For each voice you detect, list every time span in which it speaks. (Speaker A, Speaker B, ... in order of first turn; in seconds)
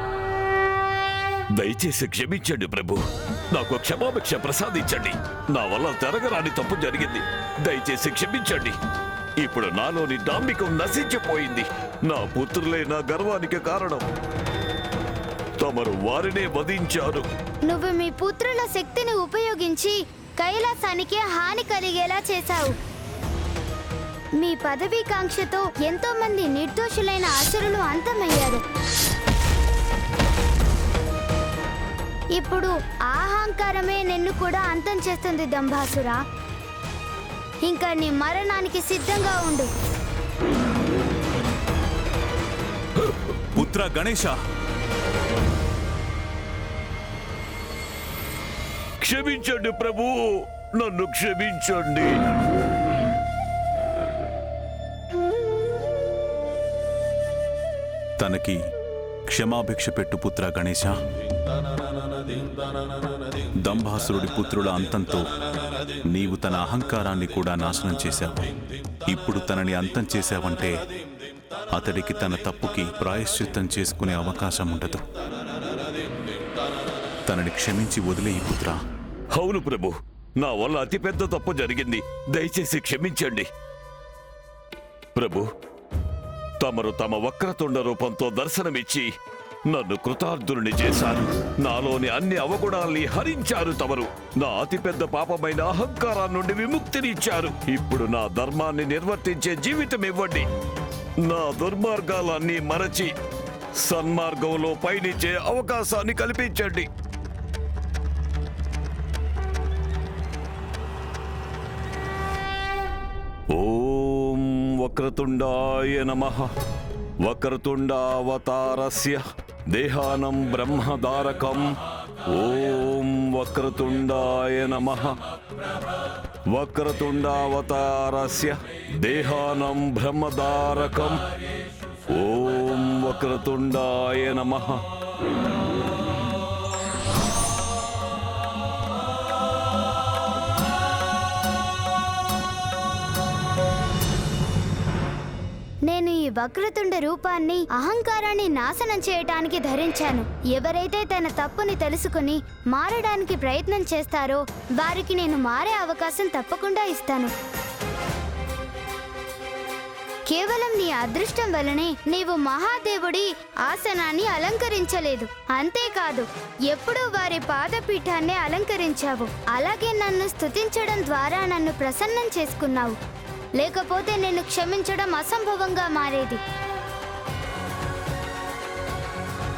Speaker A: 1.6-8.8, 9.4-14.1, 15.6-17.3, 49.0-52.2, 79.3-83.5, 85.2-85.5, 86.6-89.1, 89.7-100.5, 101.2-103.1, 103.8-106.9, 113.5-116.5, 117.2-121.7, 122.3-125.2, 126.5-131.2, 132.1-134.8
Speaker B: 17.7-22.8, 24.4-28.6, 32.4-36.2, 37.6-39.7, 145.9-157.3, 160.3-173.0, 173.6-176.4
Speaker C: 43.6-44.4, 58.2-58.6, 59.3-61.0, 63.6-65.2, 66.1-68.4, 69.1-70.8, 71.7-75.0, 77.3-78.8